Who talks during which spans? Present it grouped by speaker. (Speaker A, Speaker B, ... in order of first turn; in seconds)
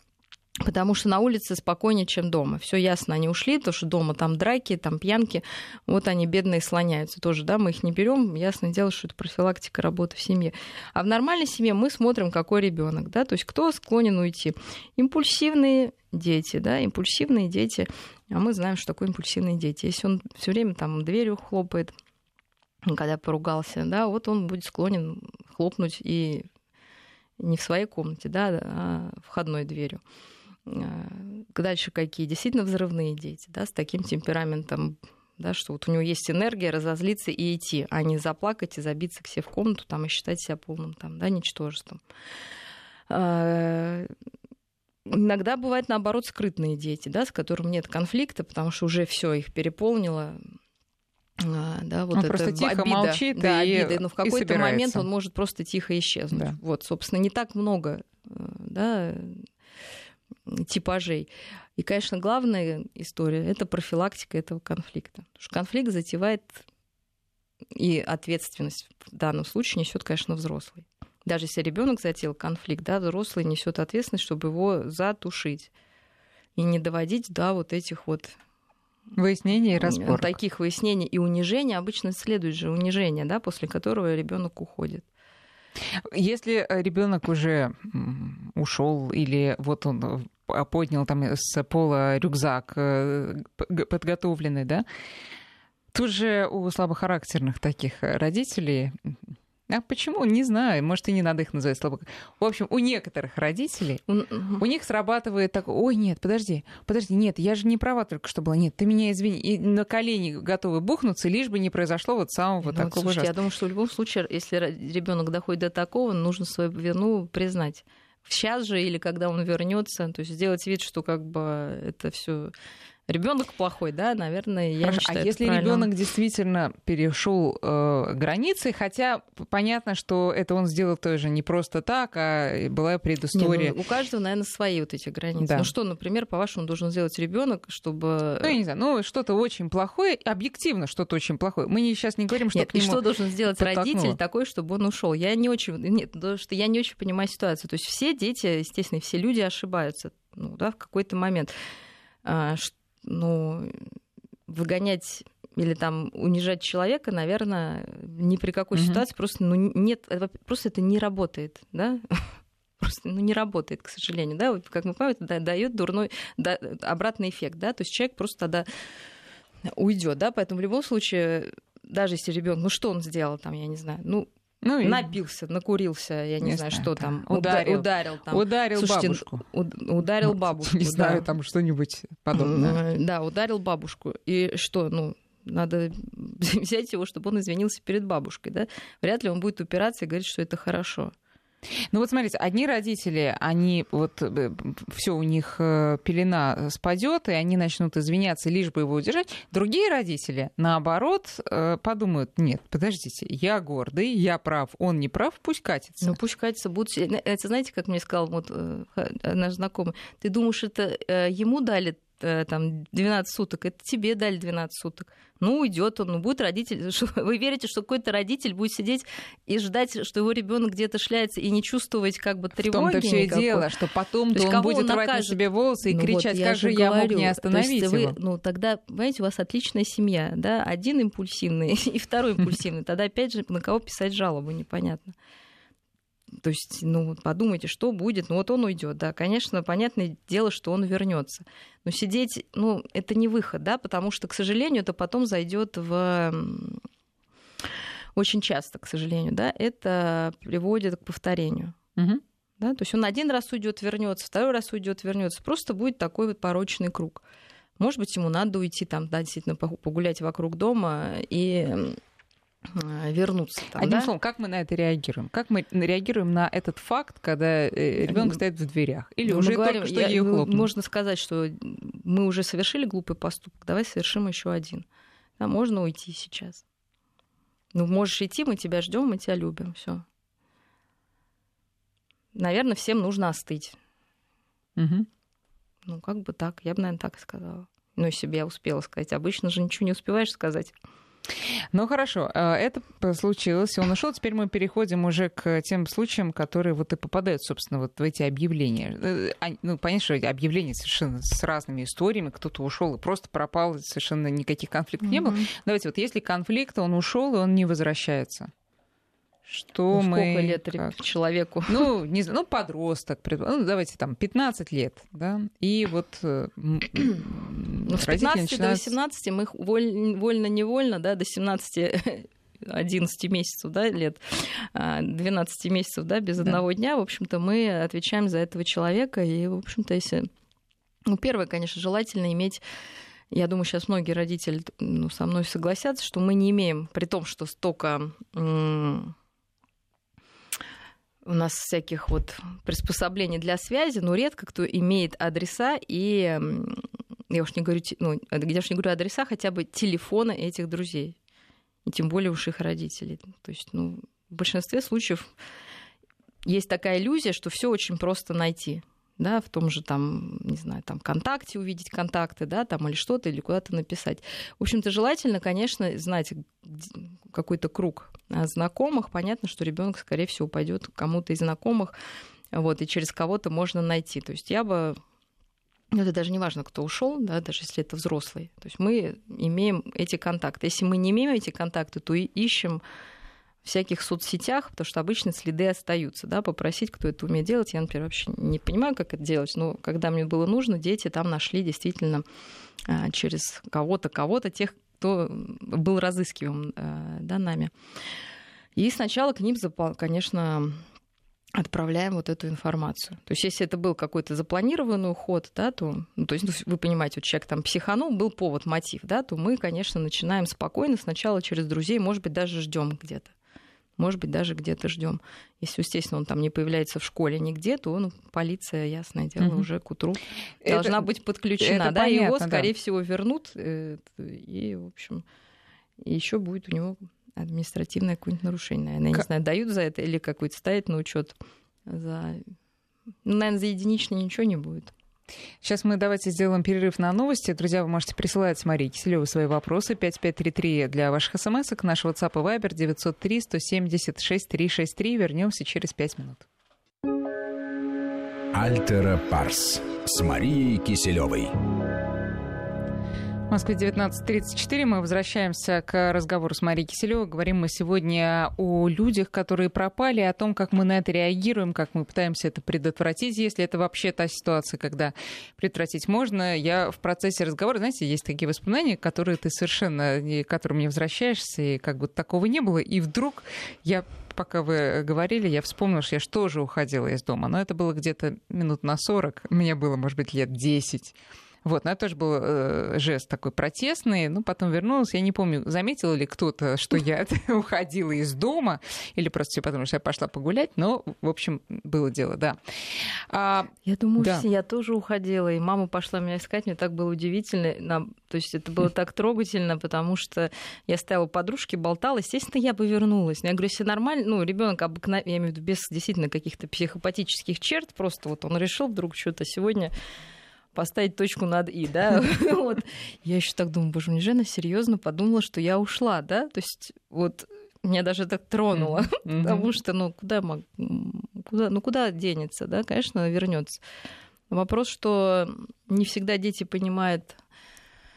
Speaker A: 0.6-21.9, 22.8-26.5, 27.4-30.0, 30.7-42.0, 43.1-44.1, 45.1-50.4, 51.4-59.5, 60.5-66.6, 67.7-75.7, 76.6-78.4, 79.8-85.1, 104.1-104.6, 112.6-122.5, 123.1-125.9, 133.3-138.6, 142.5-151.5, 152.2-153.9, 154.5-168.7, 169.7-174.3, 174.8-181.3, 182.3-191.1, 206.0-223.7, 224.3-235.1, 236.3-246.8, 248.2-251.8, 252.6-257.2, 257.8-262.0, 262.7-264.1, 268.0-268.4, 269.3-274.9, 275.4-276.6, 277.7-280.1, 282.3-283.8, 285.9-290.8, 305.0-305.5, 309.9-311.9, 317.9-330.3, 331.1-332.6, 333.3-339.2, 341.2-351.2, 351.9-355.3, 356.4-371.9, 372.5-375.0, 375.9-382.8, 383.6-392.2, 392.9-397.7, 398.8-400.8, 401.6-413.3, 414.0-425.2, 426.0-432.4, 433.2-434.9, 493.9-509.9, 510.7-523.8, 524.5-527.4
Speaker B: 52.1-55.1, 79.2-80.3, 86.0-94.8, 95.9-104.0, 104.6-113.3, 124.8-133.8, 135.4-135.7, 138.4-143.1, 143.6-144.2, 158.8-159.0, 174.6-175.1, 176.4-179.4, 180.2-182.8, 191.9-206.2, 222.6-228.2, 252.0-252.2, 263.8-270.7, 284.8-285.1, 291.7-308.5, 309.5-310.9, 311.7-318.9, 419.4-419.7, 420.6-421.1, 421.6-422.7, 435.6-446.5, 453.5-492.6, 493.3-494.5, 518.8-519.7
Speaker C: 448.5-451.5